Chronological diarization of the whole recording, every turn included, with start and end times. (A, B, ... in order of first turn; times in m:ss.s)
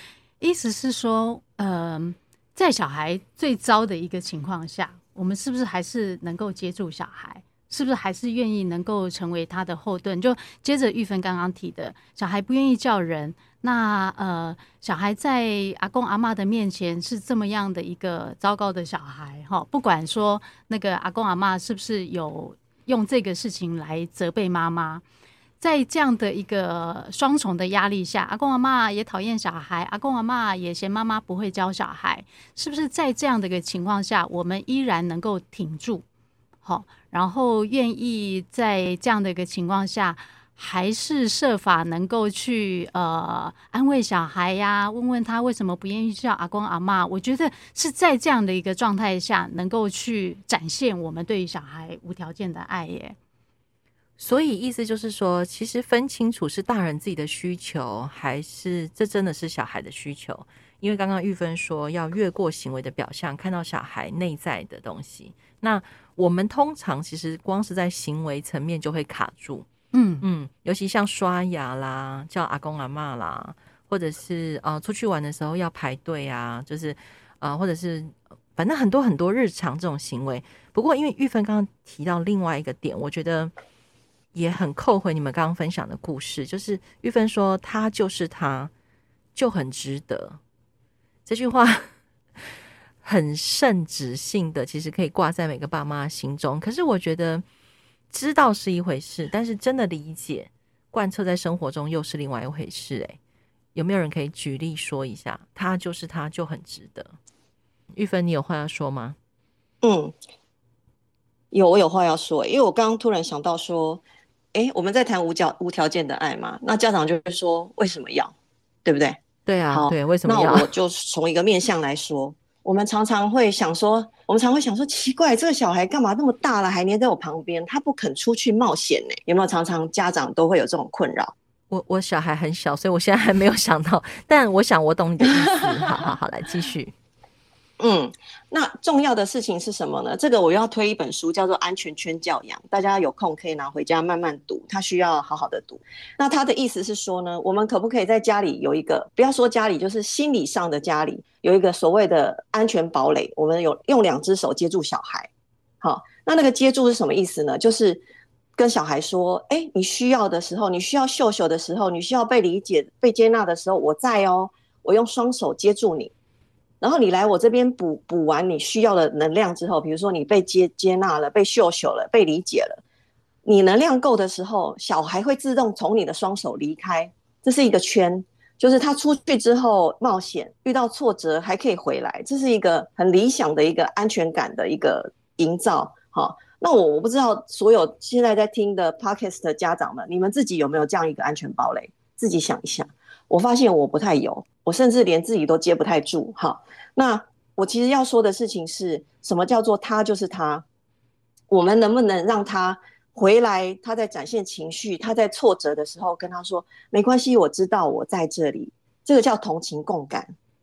0:00.4-0:25.0 A
0:25.6-0:36.0 A
0:36.6-0:53.2 A
0:54.2-1:09.7 B
1:09.9-1:10.2 A
1:10.2-1:23.5 B
1:24.3-1:28.7 B
1:29.4-1:30.4 B
1:31.3-1:31.9 B
1:33.0-1:37.4 B
1:38.1-1:43.2 B
1:43.8-1:47.1 B
1:47.9-1:49.2 B
1:49.8-1:50.2 C
1:51.5-1:54.0 C
1:54.5-1:58.3 C
1:58.8-1:59.2 C
1:59.5-2:00.7 B
1:59.7-2:11.3 C
2:11.7-2:16.9 B
2:17.8-2:35.3 C
2:35.8-2:38.0 C
2:38.6-2:46.1 C
2:46.8-2:52.8 C
2:53.4-3:20.6 C
3:21.5-3:30.3 C